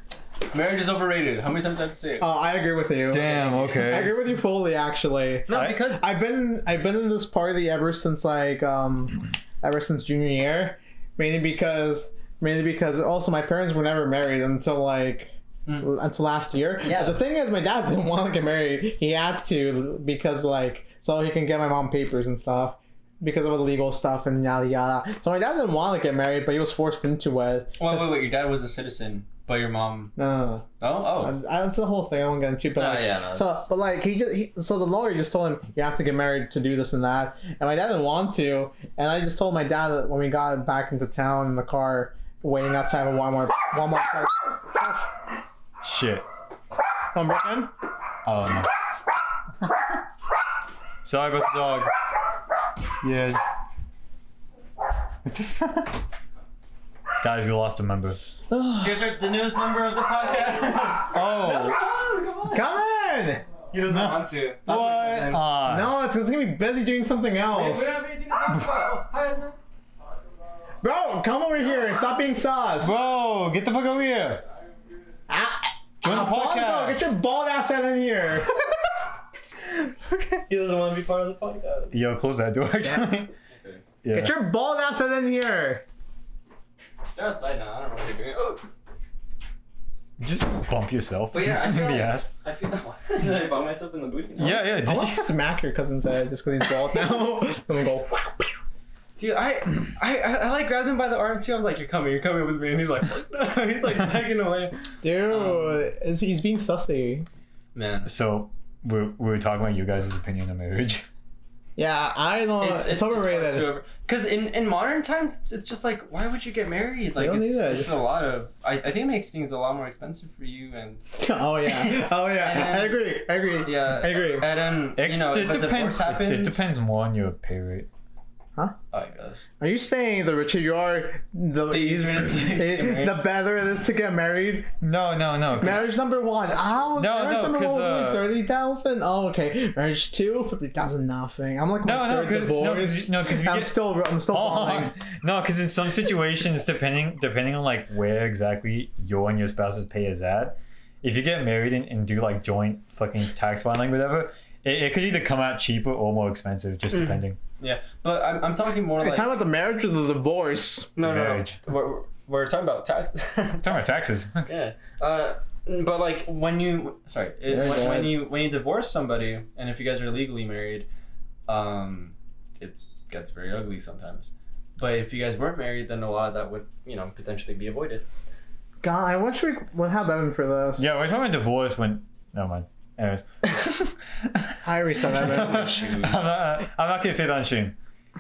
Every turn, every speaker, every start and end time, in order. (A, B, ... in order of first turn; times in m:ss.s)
0:00.5-0:02.3 A
0:02.2-0:28.2 B
0:03.1-0:04.2 C
0:03.2-0:04.0 A
0:05.5-0:06.0 A
0:05.5-0:05.8 C
0:27.8-0:30.1 A
0:30.2-0:45.1 B
0:30.8-0:31.3 A
0:32.8-0:33.7 A
0:45.8-0:46.3 C
0:47.1-0:47.7 B
0:48.2-0:48.7 C
0:51.0-0:51.9 C
0:53.0-0:53.5 C
0:55.2-0:56.0 C
0:57.2-0:58.2 C
0:58.5-0:59.1 B
0:58.8-1:02.7 A
1:01.1-1:01.8 C
1:02.5-1:03.4 B
1:03.7-1:05.5 A
1:03.9-1:05.9 C
1:05.6-1:08.0 B
1:07.5-1:09.6 A
1:10.8-1:13.0 B
1:11.6-1:12.0 A
1:12.8-1:14.4 C
1:15.3-1:18.5 B
1:16.0-1:17.1 C
1:20.5-1:22.0 A
1:21.9-1:23.3 C
1:22.8-1:23.1 B
1:23.5-1:23.8 A
1:24.0-1:24.3 C
1:24.1-1:25.8 B
1:27.1-1:28.7 A
1:30.2-1:32.3 C
1:31.3-1:34.7 A
1:34.4-1:35.4 C
1:34.4-1:38.6 B
1:39.2-1:45.8 A
1:45.0-1:47.3 B
1:47.8-1:48.1 A
1:48.1-1:51.1 C
1:51.8-1:53.8 B
1:52.6-2:01.0 A
1:57.2-1:58.0 B
2:01.2-2:04.5 B
2:01.6-2:03.0 A
2:03.6-2:06.7 A
2:05.0-2:07.9 C
2:08.9-2:09.5 A
2:09.6-2:14.7 B
2:11.7-2:13.2 A
2:14.8-2:16.0 C
2:15.6-2:25.0 B
2:16.9-2:18.3 C
2:21.8-2:37.4 C
2:36.9-2:39.4 A
2:39.0-2:40.9 B
2:41.0-2:43.8 A
2:41.0-2:41.6 C
2:43.6-2:44.5 C
2:44.5-2:50.9 A
2:47.5-2:48.2 B
2:51.5-2:58.0 A
2:58.8-3:00.9 B
3:00.8-3:07.8 C
3:04.6-3:05.9 B
3:05.0-3:06.3 A